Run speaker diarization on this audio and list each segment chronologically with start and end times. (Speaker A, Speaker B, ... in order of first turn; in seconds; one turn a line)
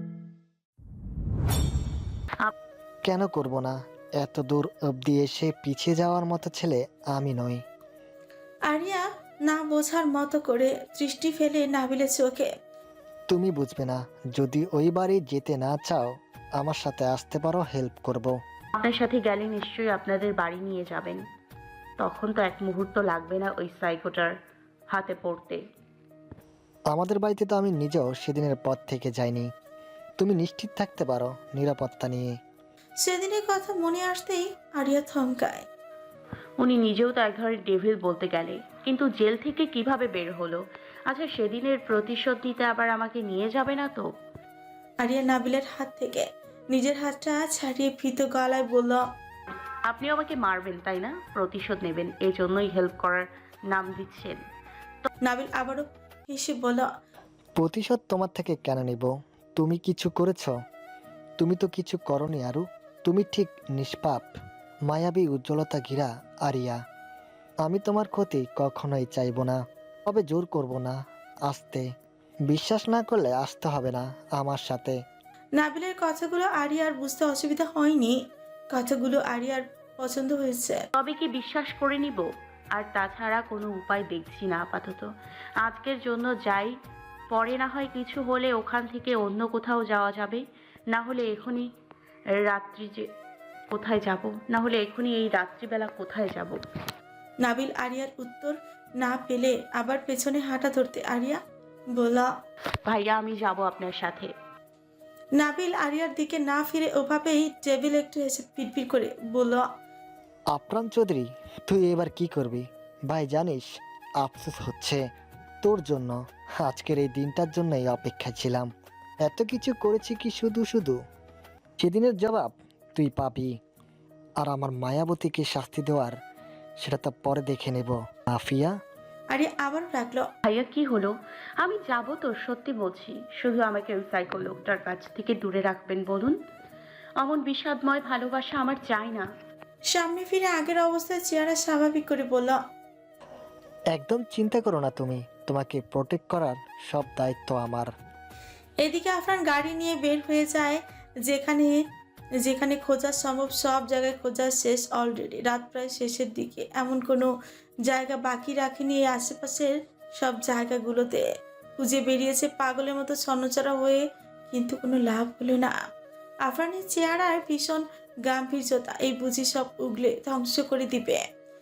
Speaker A: 3.0-7.6
Speaker B: 8.7-12.5
Speaker A: 13.3-18.4
Speaker C: 18.8-21.2
Speaker C: 22.0-24.3
Speaker C: 24.9-25.6
Speaker A: 26.9-29.5
Speaker A: 30.2-32.3
Speaker B: 33.0-35.6
Speaker C: 36.6-44.1
Speaker B: 45.0-49.0
Speaker C: 49.8-54.4
Speaker B: 55.2-56.9
Speaker A: 57.6-60.5
Speaker A: 61.4-64.3
Speaker A: 64.9-66.8
Speaker A: 67.6-71.8
Speaker A: 72.5-75.0
Speaker B: 75.5-78.1
Speaker B: 78.7-80.9
Speaker C: 80.9-86.7
Speaker C: 87.3-91.7
Speaker C: 92.4-93.1
Speaker C: 93.7-96.6
Speaker B: 97.4-101.4
Speaker B: 101.9-102.3
Speaker C: 102.9-104.3
Speaker B: 105.3-109.6
Speaker A: 110.5-113.7
Speaker A: 114.2-115.0
Speaker A: 115.6-118.7
Speaker A: 119.2-121.0
Speaker A: 121.8-123.5
Speaker A: 124.4-126.2
Speaker A: 126.8-128.7
Speaker B: 129.3-130.3
Speaker C: 130.5-136.4
Speaker C: 137.2-139.2
Speaker B: 139.9-142.6
Speaker A: 143.9-147.9
Speaker B: 148.8-151.8
Speaker B: 152.4-157.3
Speaker B: 157.8-161.2
Speaker B: 161.8-165.8
Speaker B: 166.4-171.2